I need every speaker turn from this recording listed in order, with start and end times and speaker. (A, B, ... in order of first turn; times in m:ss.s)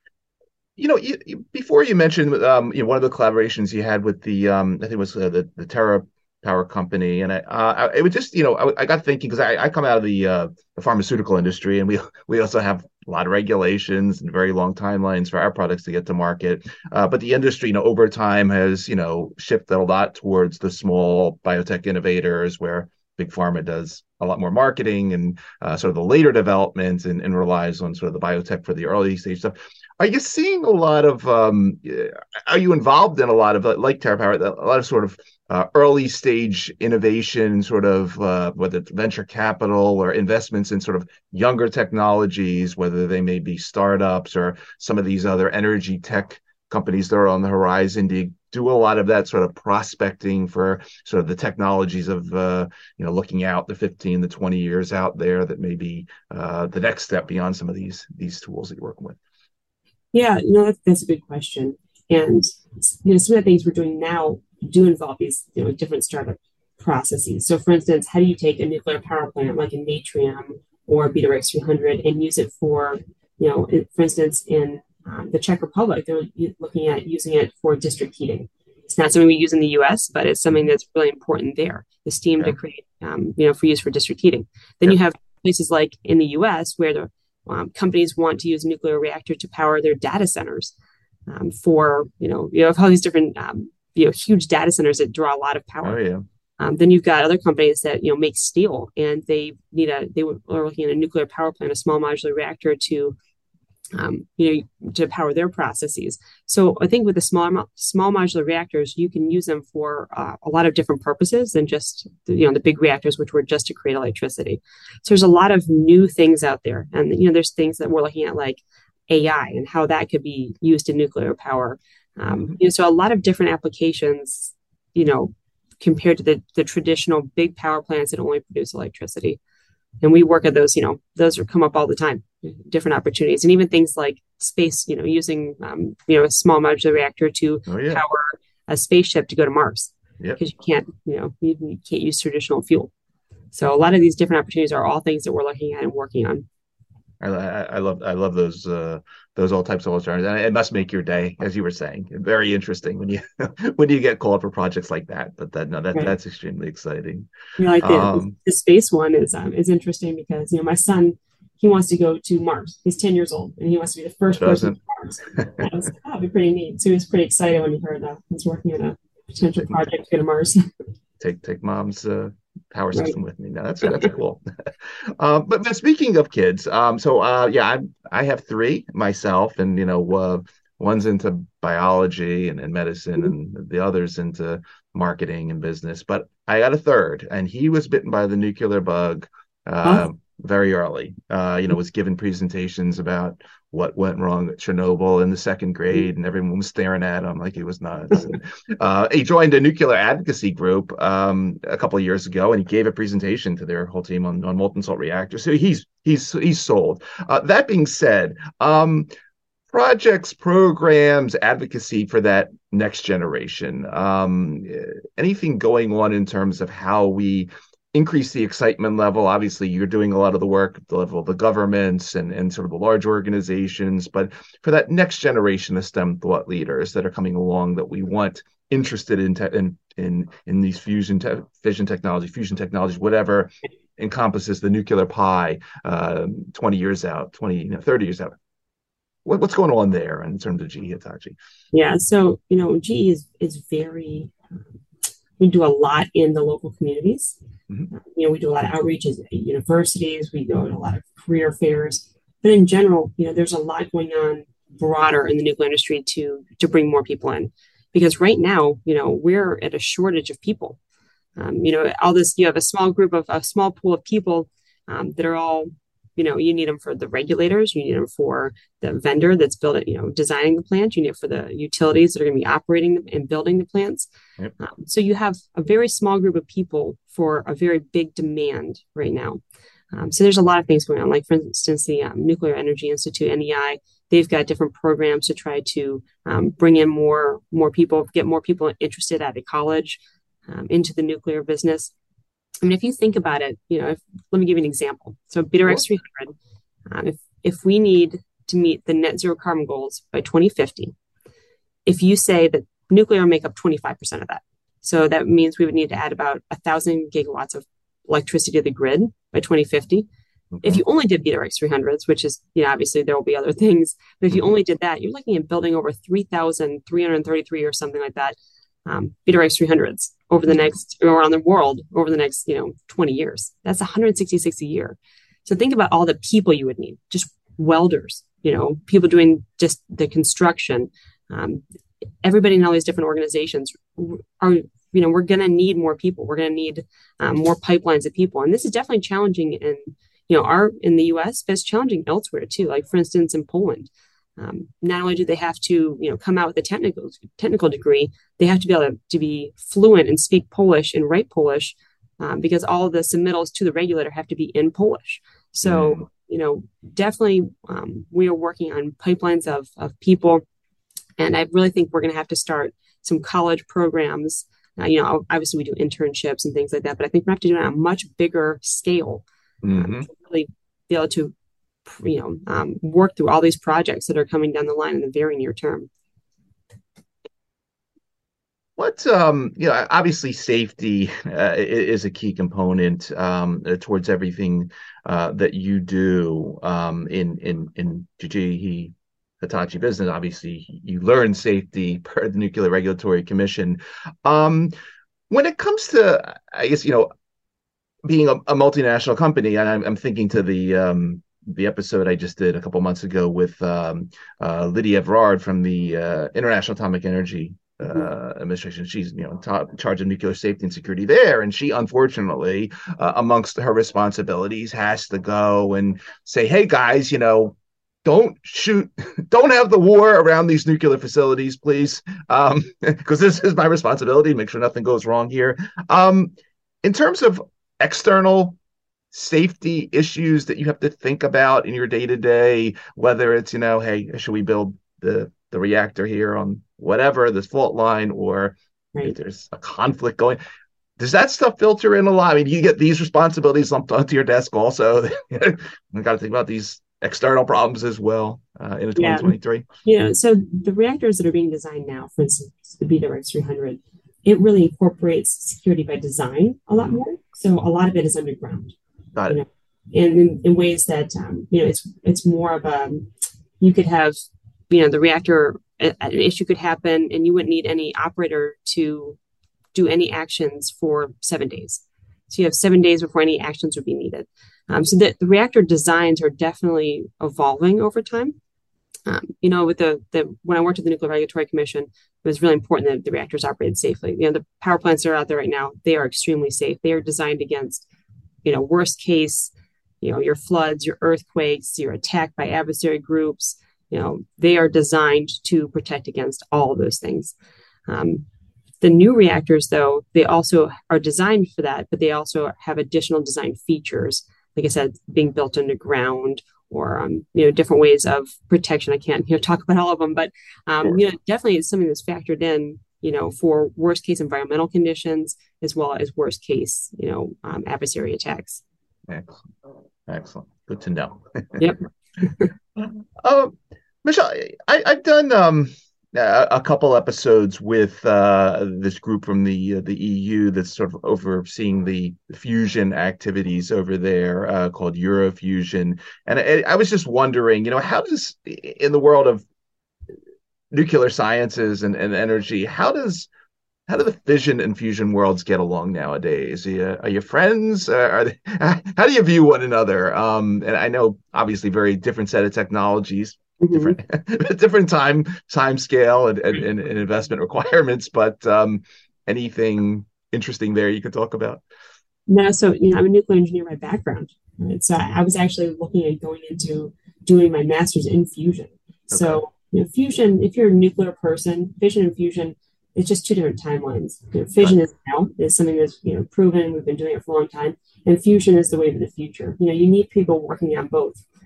0:00.8-0:59.2 A
1:00.1-1:30.7 B
1:31.3-1:36.0 B
1:35.8-1:36.2 A
1:36.6-1:43.2 B
1:43.9-2:09.4 B
2:10.0-2:22.9 B
2:17.7-2:18.0 A
2:23.5-2:26.4 B
2:27.2-2:37.3 A
2:37.6-2:50.6 B
2:37.8-2:38.3 A
2:44.4-2:44.8 A
2:45.3-2:45.7 A
2:51.2-3:29.1 A
3:29.7-3:58.3 A
3:59.2-4:01.3 A
4:01.7-4:04.3 B
4:05.4-4:07.3 B
4:07.9-4:20.8 B
4:21.4-4:34.1 B
4:34.6-4:39.4 B
4:39.9-4:51.9 B
4:52.6-4:56.3 B
4:56.9-5:00.9 B
5:01.8-5:10.0 B
5:10.5-5:10.8 A
5:10.6-5:31.6 B
5:32.2-6:00.4 B
5:55.6-5:56.0 A
6:01.2-6:11.3 B
6:09.6-6:10.1 A
6:11.8-6:15.9 B
6:18.8-6:34.7 A
6:35.3-6:37.1 A
6:38.0-7:08.6 A
7:09.1-7:20.4 A
7:21.0-7:29.6 A
7:29.0-7:29.3 B
7:29.8-7:38.8 B
7:39.2-7:39.4 A
7:39.3-7:49.2 B
7:49.7-7:58.3 B
7:59.0-8:07.8 B
8:08.4-8:17.3 B
8:17.9-8:18.2 B
8:18.8-8:38.6 B
8:39.1-8:39.5 A
8:40.1-8:41.7 A
8:42.8-8:59.4 A
9:00.7-9:03.3 A
9:03.9-9:21.6 A
9:13.6-9:14.0 B
9:22.3-9:41.2 B
9:29.1-9:29.4 A